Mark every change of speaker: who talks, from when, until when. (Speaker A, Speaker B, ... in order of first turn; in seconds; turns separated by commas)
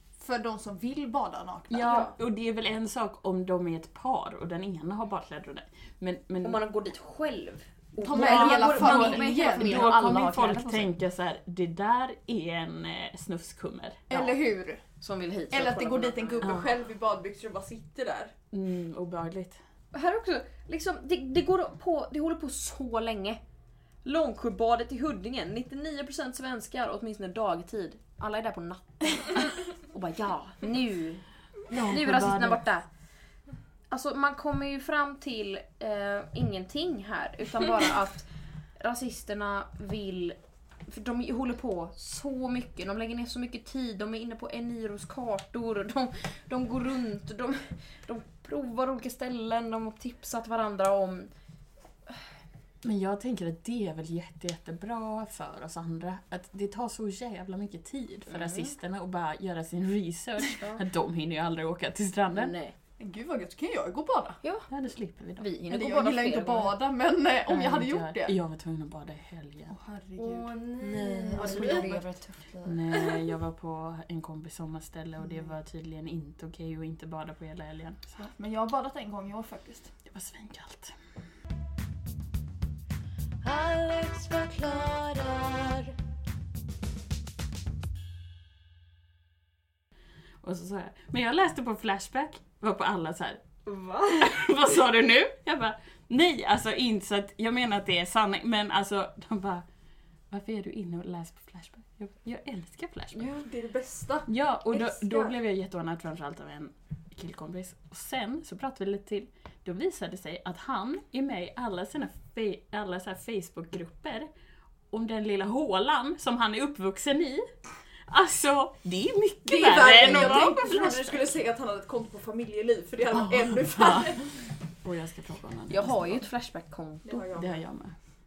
Speaker A: 0.2-1.9, Speaker B: 1.7-6.6, Speaker C: 1.7-2.1, Speaker C: 6.4-10.9, Speaker A: 8.0-9.9, Speaker B: 8.1-14.0, Speaker A: 14.1-14.8, Speaker C: 14.1-14.4, Speaker C: 15.0-16.6, Speaker A: 15.5-18.3, Speaker B: 16.4-16.7, Speaker B: 18.5-19.6, Speaker C: 19.9-23.4, Speaker C: 24.1-31.2, Speaker B: 31.7-32.6, Speaker C: 31.8-32.9, Speaker C: 33.9-38.3, Speaker C: 38.8-51.3, Speaker B: 52.8-62.5, Speaker C: 58.3-58.7, Speaker C: 60.5-60.8, Speaker C: 62.3-62.8, Speaker A: 63.0-64.4, Speaker C: 64.4-64.7, Speaker B: 64.7-65.5, Speaker C: 65.4-66.8, Speaker A: 65.7-68.3, Speaker B: 67.5-69.7, Speaker A: 69.7-70.5, Speaker D: 70.2-72.0, Speaker C: 70.8-72.8, Speaker A: 71.3-72.0, Speaker B: 72.7-78.3, Speaker A: 78.3-79.9, Speaker B: 80.1-81.0, Speaker D: 83.4-86.0, Speaker B: 90.4-93.4, Speaker B: 94.2-99.7, Speaker B: 100.3-103.3, Speaker C: 103.1-103.5, Speaker A: 103.5-105.4, Speaker B: 104.3-114.3, Speaker B: 114.9-117.5, Speaker B: 118.1-121.2, Speaker A: 119.4-124.3, Speaker C: 120.0-120.4, Speaker B: 123.1-124.2, Speaker B: 124.8-126.2, Speaker C: 125.7-127.3, Speaker A: 127.1-127.6, Speaker B: 127.3-128.0